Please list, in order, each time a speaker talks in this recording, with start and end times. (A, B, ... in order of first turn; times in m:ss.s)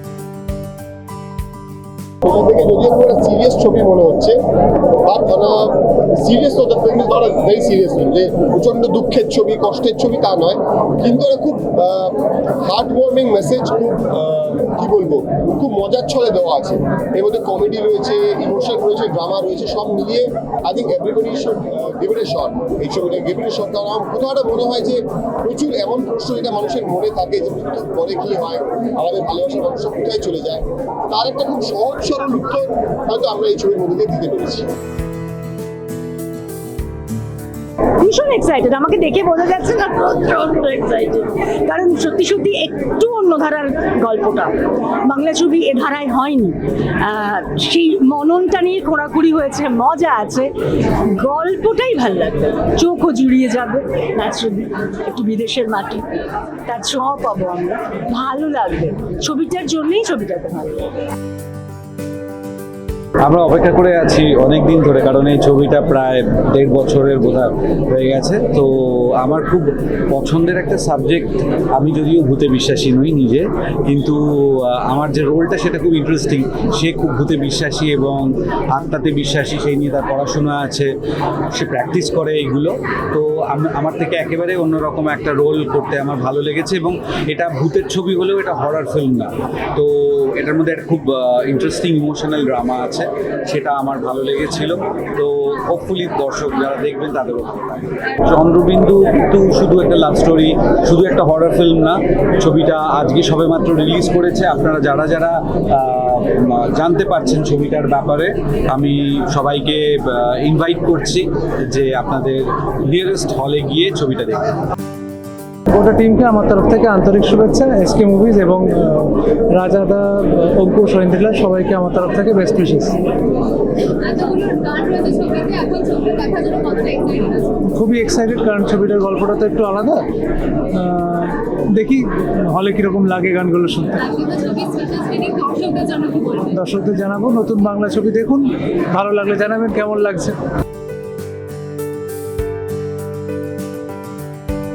0:02.2-0:04.4 A
0:05.0-0:34.7 A
0:38.0-0:56.1 B
0:56.6-1:00.9 B
1:03.2-1:20.9 C
1:21.5-1:54.5 C
1:55.7-2:03.0 D
2:03.9-2:07.6 E
2:07.6-2:10.1 D
2:10.7-2:14.0 D
2:14.0-2:16.5 E
2:16.5-2:20.4 D